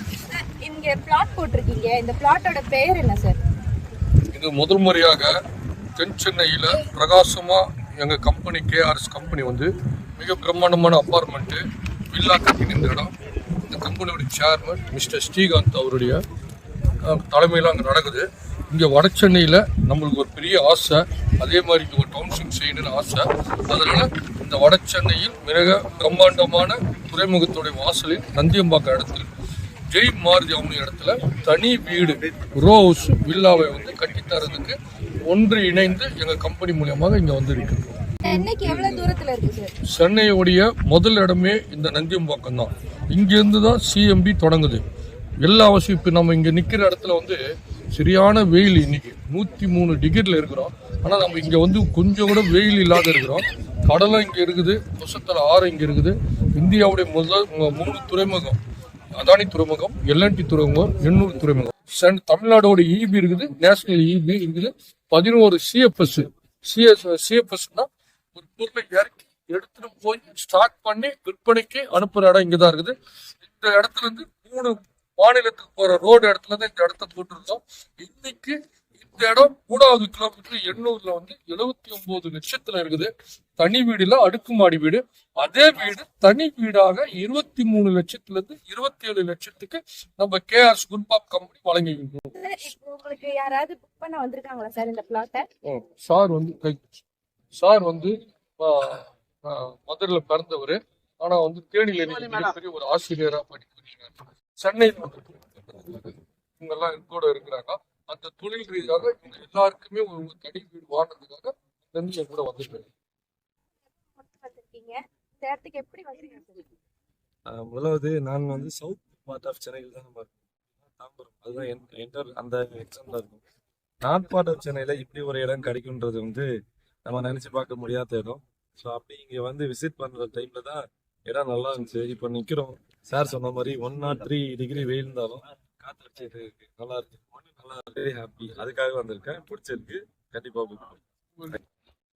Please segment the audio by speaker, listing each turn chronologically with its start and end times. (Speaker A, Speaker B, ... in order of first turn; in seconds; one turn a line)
Speaker A: 0.3-3.4
Speaker B: 4.3-5.3
Speaker B: 6.0-16.2
Speaker B: 17.0-29.3
Speaker B: 29.9-34.8
Speaker B: 35.3-37.8
Speaker A: 38.3-39.7
Speaker B: 39.9-44.8
Speaker B: 45.4-47.4
Speaker B: 48.0-58.6
Speaker B: 59.2-73.0
Speaker B: 73.5-92.3
Speaker A: 92.4-95.5
Speaker B: 95.7-97.0
Speaker B: 97.5-112.9
Speaker A: 114.2-116.6
Speaker C: 117.5-123.4
Speaker C: 124.0-126.5
Speaker C: 127.0-141.0